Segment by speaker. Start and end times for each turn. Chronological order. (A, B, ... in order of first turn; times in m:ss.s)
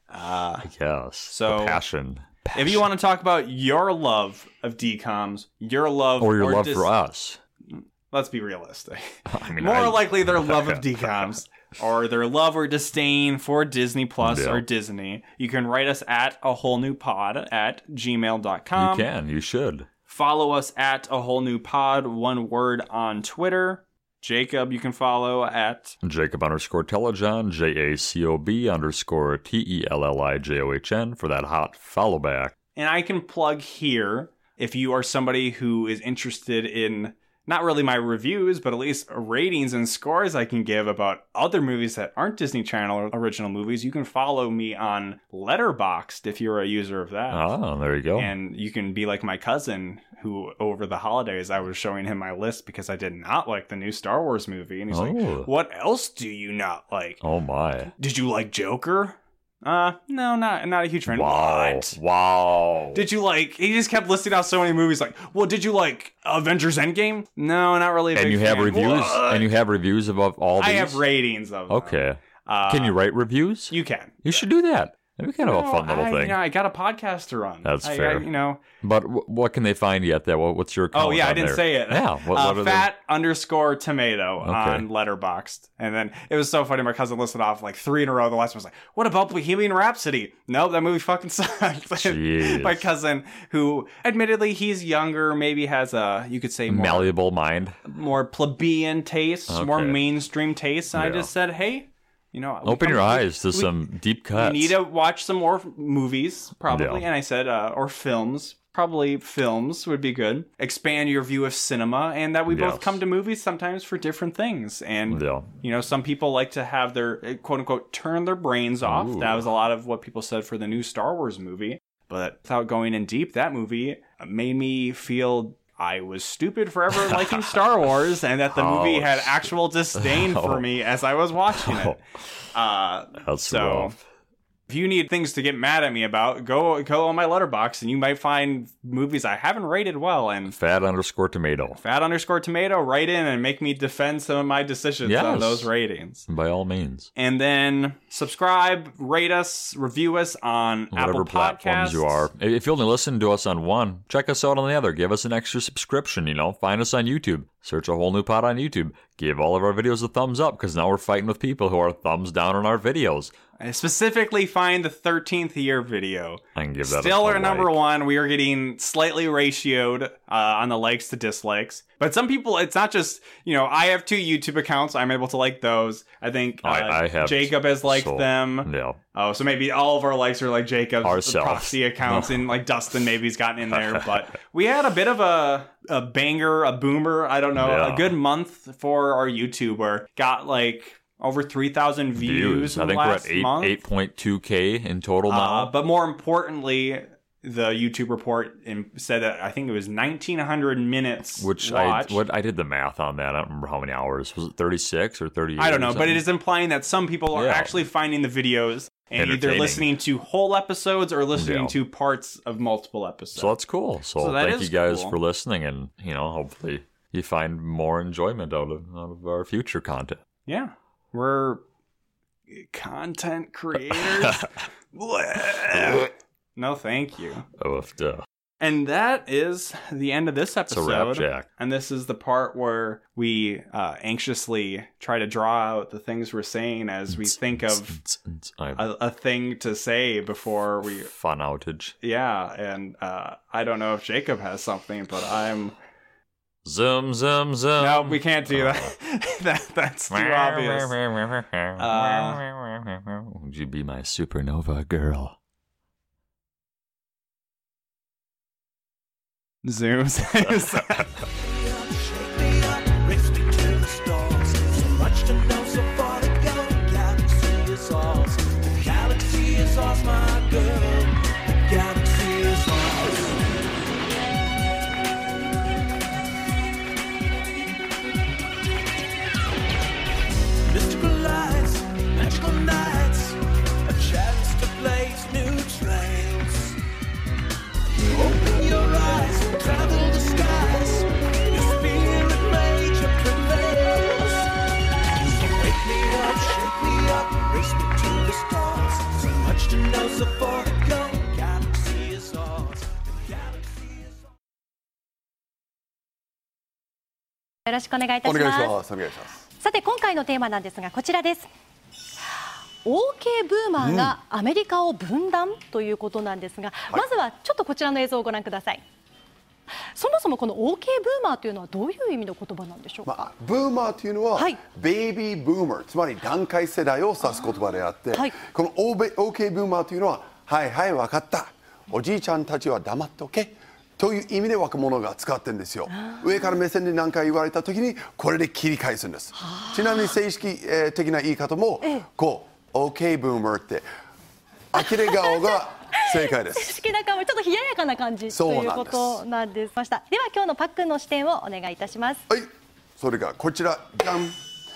0:00.1-0:00.7 A
0:00.6-0:02.9 B
0:01.3-0:01.8 A
0:02.5-0:06.9 A
0:06.2-0:07.4 B
0:07.7-0:19.1 A
0:09.3-0:11.3 B
0:14.2-0:14.6 B
0:18.7-0:19.9 B
0:20.1-0:26.0 A
0:26.0-0:32.5 B
0:32.8-0:47.5 A
0:47.3-0:48.3 B
0:48.2-0:57.2 A
0:54.9-0:55.5 B
0:57.2-0:57.9 B
0:58.0-1:02.0 A
1:01.1-1:03.1 B
1:02.9-1:09.5 A
1:08.2-1:11.0 B
1:10.6-1:13.0 A
1:11.7-1:16.4 B
1:13.7-1:14.5 A
1:15.4-1:18.6 A
1:17.6-1:18.3 B
1:18.8-1:22.9 B
1:20.9-1:37.2 A
1:24.4-1:24.9 B
1:32.0-1:32.9 B
1:36.7-1:37.8 B
1:37.8-1:43.8 A
1:39.5-1:40.0 B
1:40.9-1:41.3 B
1:42.6-1:44.8 B
1:44.3-2:12.0 A
1:46.7-1:47.1 B
1:52.5-1:53.0 B
1:55.1-1:55.6 B
1:58.8-1:59.5 B
2:07.0-2:07.6 B
2:08.5-2:10.7 B
2:11.5-2:12.0 B
2:12.5-2:14.0 A
2:13.2-2:14.0 B
2:14.7-2:20.6 A
2:20.5-2:21.8 B
2:21.8-2:26.3 A
2:25.0-2:25.7 B
2:26.3-2:27.1 B
2:27.2-2:32.3 A
2:30.9-2:43.3 B
2:43.6-3:13.8 A
2:46.6-2:47.8 B
2:56.6-2:59.0 B
3:01.0-3:02.5 B
3:03.7-3:04.1 B
3:07.5-3:08.2 B
3:12.2-3:15.7 B
3:15.3-3:22.2 A
3:21.4-3:26.3 B
3:25.6-3:33.6 A
3:27.3-3:27.7 B
3:29.2-3:29.9 B
3:31.4-3:31.8 B
3:33.4-3:40.2 B
3:34.2-3:35.2 A
3:40.5-3:41.6 A
3:42.5-3:47.5 A
3:43.9-3:44.5 B
3:45.7-3:46.1 B
3:47.6-3:48.2 B
3:48.6-3:58.0 A
3:50.7-3:51.5 B
3:57.1-3:58.8 B
3:58.8-4:01.1 A
4:01.1-4:02.0 B
4:02.0-4:05.8 A
4:06.6-4:08.9 B
4:07.8-4:11.0 A
4:10.1-4:15.4 B
4:11.8-4:12.4 A
4:19.6-4:21.2 A
4:21.2-4:33.4 C
4:40.7-4:46.8 C
4:48.1-4:54.5 C
4:55.0-5:04.2 C
5:07.7-5:08.8 D
5:08.2-5:09.4 E
5:09.6-5:11.5 D
5:12.8-5:18.8 D
5:13.8-5:14.1 E
5:19.9-5:23.1 D
5:23.1-5:43.8 E
5:24.4-5:24.6 D
5:36.0-5:36.4 D
5:39.4-5:40.2 D
5:44.7-5:46.8 E
5:44.8-5:52.2 D
5:48.3-5:49.2 E
5:52.3-5:54.4 E